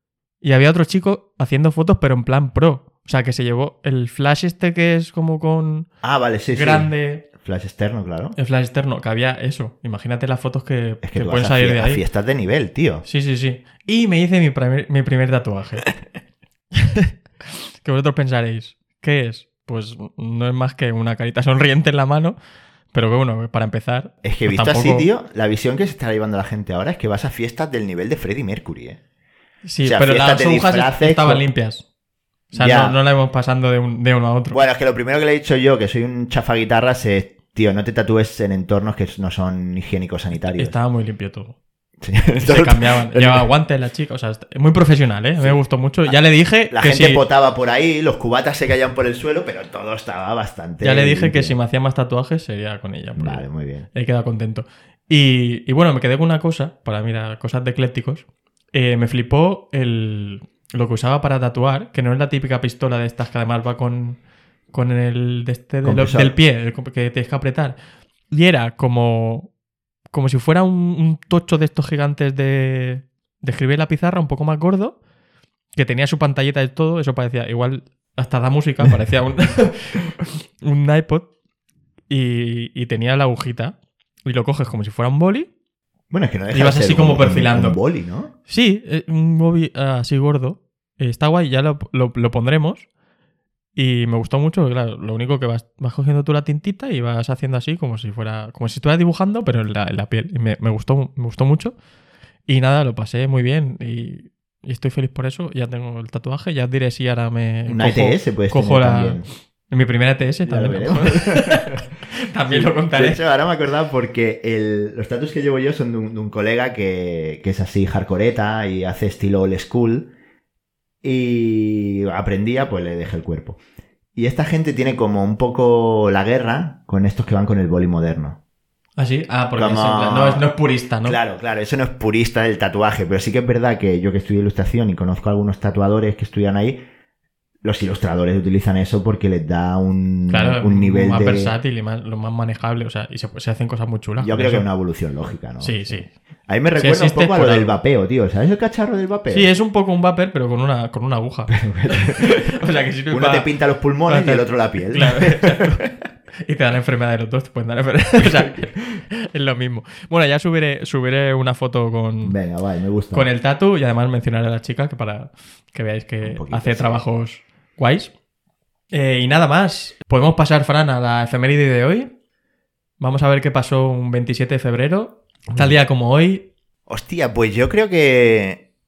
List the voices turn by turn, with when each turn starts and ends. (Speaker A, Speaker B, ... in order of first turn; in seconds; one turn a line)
Speaker A: 0.4-5.9
Speaker B: 6.0-8.3
Speaker A: 6.5-7.2
Speaker A: 8.3-12.0
Speaker B: 11.0-13.0
Speaker A: 13.0-15.9
Speaker A: 16.8-22.4
Speaker A: 22.9-25.1
Speaker B: 24.2-29.0
Speaker A: 29.6-31.8
Speaker B: 29.8-31.4
Speaker B: 32.5-33.0
Speaker A: 32.5-34.6
Speaker B: 34.5-40.8
Speaker A: 40.5-41.6
Speaker B: 42.0-43.5
Speaker A: 42.4-47.2
Speaker B: 45.4-51.5
Speaker A: 50.8-64.2
Speaker B: 53.2-53.9
Speaker A: 64.7-67.8
Speaker B: 65.8-66.3
Speaker A: 68.3-69.5
Speaker A: 70.1-75.0
Speaker A: 75.7-81.3
Speaker A: 82.1-85.5
Speaker B: 86.1-88.3
Speaker A: 86.5-87.8
Speaker A: 88.5-92.9
Speaker A: 93.8-101.7
Speaker A: 102.5-113.2
Speaker B: 107.7-109.2
Speaker B: 110.4-111.8
Speaker B: 112.5-120.1
Speaker B: 121.0-123.6
Speaker B: 124.2-128.4
Speaker A: 129.0-131.2
Speaker B: 129.6-130.4
Speaker B: 131.0-136.8
Speaker B: 137.6-141.5
Speaker A: 140.3-144.7
Speaker B: 144.2-149.5
Speaker A: 145.6-146.1
Speaker A: 146.8-147.7
Speaker A: 149.3-153.5
Speaker B: 151.5-152.5
Speaker B: 153.1-155.9
Speaker A: 154.1-155.8
Speaker A: 156.4-162.3
Speaker B: 158.2-158.7
Speaker B: 162.2-163.3
Speaker A: 163.1-168.1
Speaker B: 166.2-167.0
Speaker A: 168.9-172.1
Speaker A: 173.0-176.5
Speaker B: 176.9-178.6